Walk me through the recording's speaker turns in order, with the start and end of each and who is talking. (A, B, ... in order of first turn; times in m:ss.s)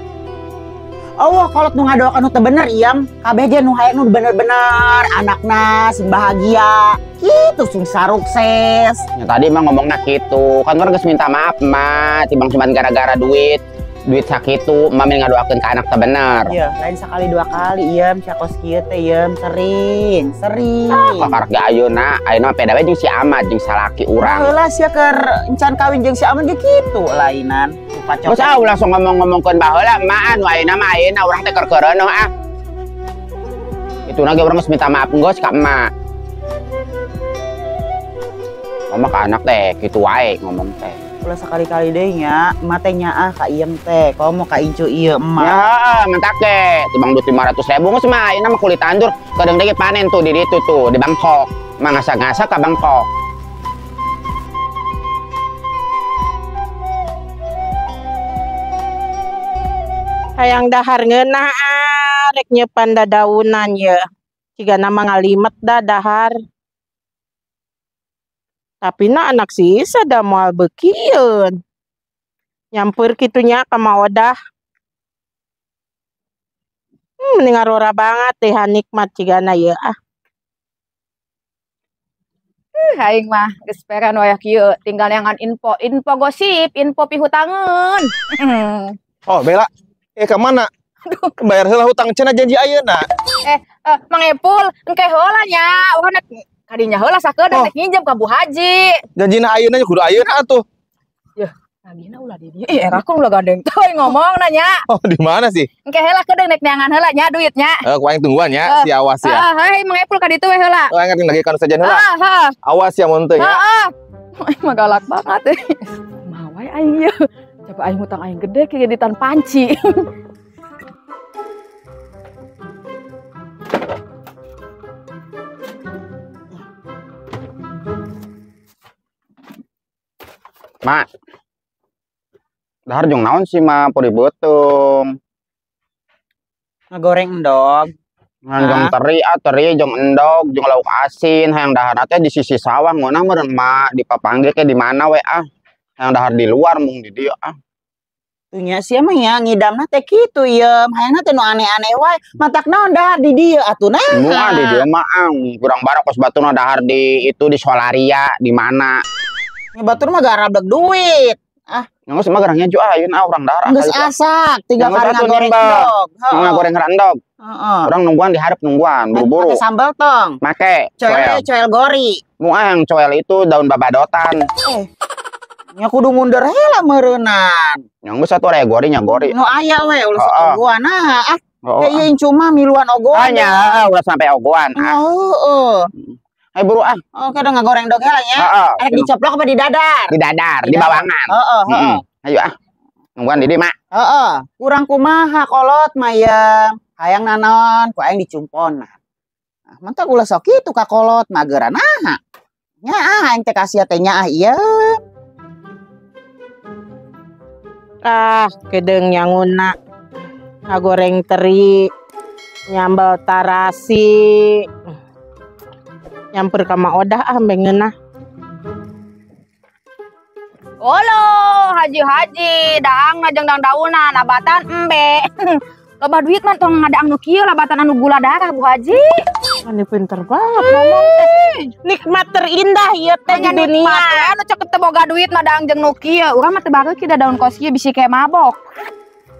0:01.2-0:09.0 A
0:09.2-0:16.5 B
0:16.5-0:21.3 A
0:20.9-0:24.5 B
0:24.2-0:28.7 A
0:28.3-0:32.3 B
0:34.1-0:35.8 B
0:38.9-0:41.0 B
0:41.2-0:45.6 A
0:45.4-0:53.1 B
1:00.4-1:04.1 C
1:04.6-1:06.4 C
1:08.8-1:11.6 C
1:12.7-1:14.4 C
1:17.2-1:20.0 C
1:22.8-1:29.0 D
1:29.3-1:30.7 E
1:31.4-1:33.1 E
1:33.4-1:39.0 D
1:39.2-1:40.6 E
1:41.4-1:44.8 D
1:44.9-1:45.7 E
1:45.9-1:47.8 D
1:47.8-1:49.4 E
1:48.7-1:50.9 D
1:50.9-1:52.0 E
1:51.8-1:52.5 D
1:52.6-1:53.6 E
1:53.4-1:53.9 D
1:54.4-1:57.1 D
1:57.7-2:00.0 D
2:12.9-2:15.1 B
2:16.9-2:17.9 A
2:18.5-2:25.4 B
2:18.6-2:18.9 A
2:26.0-2:27.5 B
2:28.5-2:34.9 A
2:34.2-2:38.9 B
2:39.8-2:41.9 A
2:42.1-2:44.1 B
2:43.6-2:46.7 A
2:44.8-2:47.2 B
2:47.4-2:47.9 A
2:47.9-2:49.6 B
2:49.2-2:50.4 A
2:50.4-2:51.5 B
2:51.0-2:52.2 A
2:52.4-2:54.4 B
2:55.8-2:57.8 A
2:58.0-2:59.4 B
2:59.2-3:03.9 A
3:00.2-3:00.6 B
3:01.6-3:02.1 B
3:03.1-3:05.0 B
3:04.8-3:05.9 A
3:06.6-3:07.0 B
3:07.2-3:12.0 A
3:08.4-3:09.1 B
3:10.1-3:12.5 B
3:13.2-3:13.8 B
3:13.9-3:19.0 A
3:19.8-3:22.2 A
3:22.8-3:25.0 A
3:28.0-3:29.8 C
3:30.7-3:31.9 C
3:32.7-3:35.0 C
3:36.3-3:37.9 C
3:40.8-3:49.2 D
3:49.6-3:54.3 C
3:50.6-3:51.3 D
3:53.3-3:58.6 D